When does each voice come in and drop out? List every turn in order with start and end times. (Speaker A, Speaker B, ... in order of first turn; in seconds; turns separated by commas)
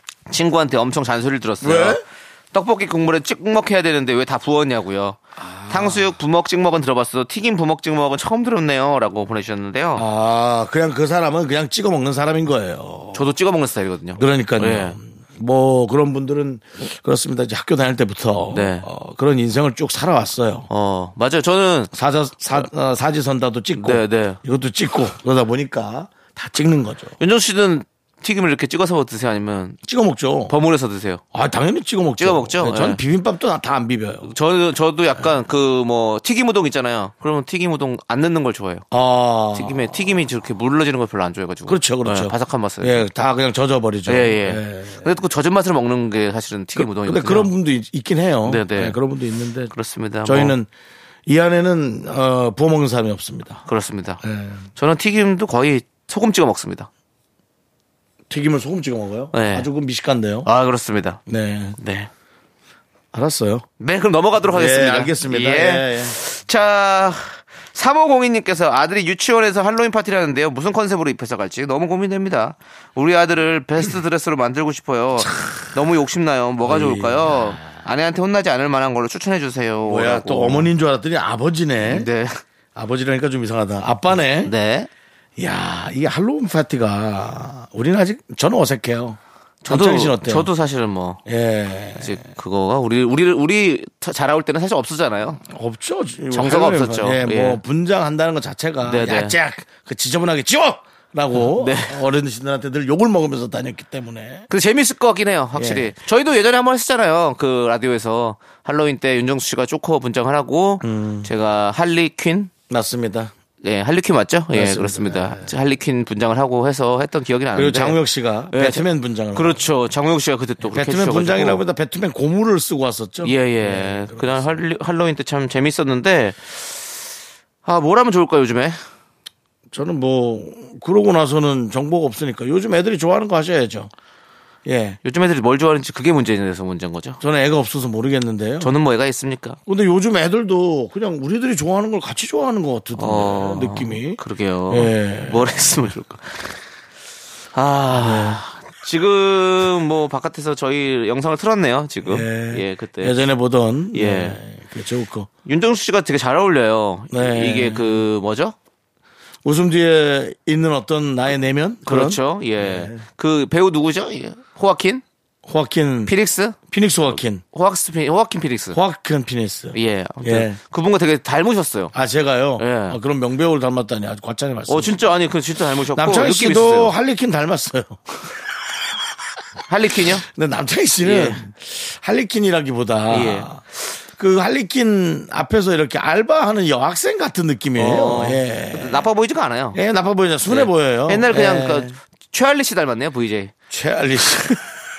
Speaker A: 0.3-2.0, Speaker B: 1.6-2.0, Speaker A: 2.5-10.1, Speaker B: 5.4-6.1, Speaker B: 9.9-13.3, Speaker A: 13.1-15.0, Speaker B: 14.2-20.7, Speaker A: 18.5-18.9, Speaker A: 20.7-21.9, Speaker B: 21.9-27.2, Speaker A: 23.8-24.4, Speaker A: 27.2-29.8, Speaker B: 29.8-30.5, Speaker A: 30.5-31.2, Speaker B: 31.3-34.3, Speaker A: 32.2-33.0, Speaker A: 34.3-38.9, Speaker B: 38.9-40.2, Speaker A: 39.5-43.1, Speaker B: 41.6-45.1, Speaker A: 44.1-47.5, Speaker B: 46.8-49.7, Speaker A: 48.5-49.0, Speaker A: 49.7-50.5, Speaker B: 50.2-50.7, Speaker B: 51.3-53.6, Speaker A: 53.7-54.2, Speaker B: 54.2-54.7, Speaker A: 54.8-56.9, Speaker B: 58.3-60.5, Speaker A: 59.3-59.7, Speaker A: 60.5-61.2, Speaker B: 61.3-61.8, Speaker A: 61.8-62.1, Speaker B: 63.1-63.6, Speaker A: 63.8-80.7, Speaker B: 64.4-66.2, Speaker B: 75.2-75.7, Speaker B: 76.6-77.8, Speaker B: 79.9-82.1, Speaker A: 81.8-82.4, Speaker B: 82.8-84.5, Speaker A: 84.4-84.9, Speaker B: 85.4-90.5, Speaker A: 89.6-91.2, Speaker B: 91.3-92.2, Speaker A: 92.0-95.4, Speaker B: 95.4-104.5, Speaker A: 96.3-97.6, Speaker A: 98.8-99.3, Speaker A: 101.3-102.0, Speaker A: 104.5-112.5, Speaker B: 105.5-105.9, Speaker B: 110.8-111.3, Speaker B: 112.7-113.3, Speaker A: 113.6-118.0, Speaker B: 114.5-115.5, Speaker B: 117.5-119.7, Speaker A: 118.5-121.6, Speaker B: 120.6-124.6, Speaker A: 123.2-126.7, Speaker A: 127.7-128.8, Speaker B: 129.7-133.9, Speaker B: 134.7-135.0, Speaker A: 135.0-137.2, Speaker B: 137.2-138.7, Speaker A: 138.6-139.6, Speaker B: 139.7-145.5, Speaker A: 143.0-146.6, Speaker A: 147.6-153.2, Speaker B: 147.9-148.4, Speaker B: 152.0-155.3, Speaker A: 153.9-154.4, Speaker A: 155.5-158.6, Speaker B: 157.1-158.1, Speaker B: 159.4-163.0, Speaker A: 161.9-165.0, Speaker B: 165.4-167.4, Speaker A: 166.1-166.6, Speaker A: 167.2-168.8, Speaker B: 168.7-170.6, Speaker A: 169.7-171.9, Speaker B: 171.9-175.1, Speaker A: 172.6-173.0, Speaker A: 174.7-176.9, Speaker B: 175.9-179.0, Speaker A: 179.7-180.2, Speaker B: 180.2-189.1, Speaker A: 181.0-181.4, Speaker A: 183.1-183.5, Speaker A: 187.8-189.8, Speaker B: 189.7-192.0, Speaker A: 190.5-193.5, Speaker B: 193.7-194.8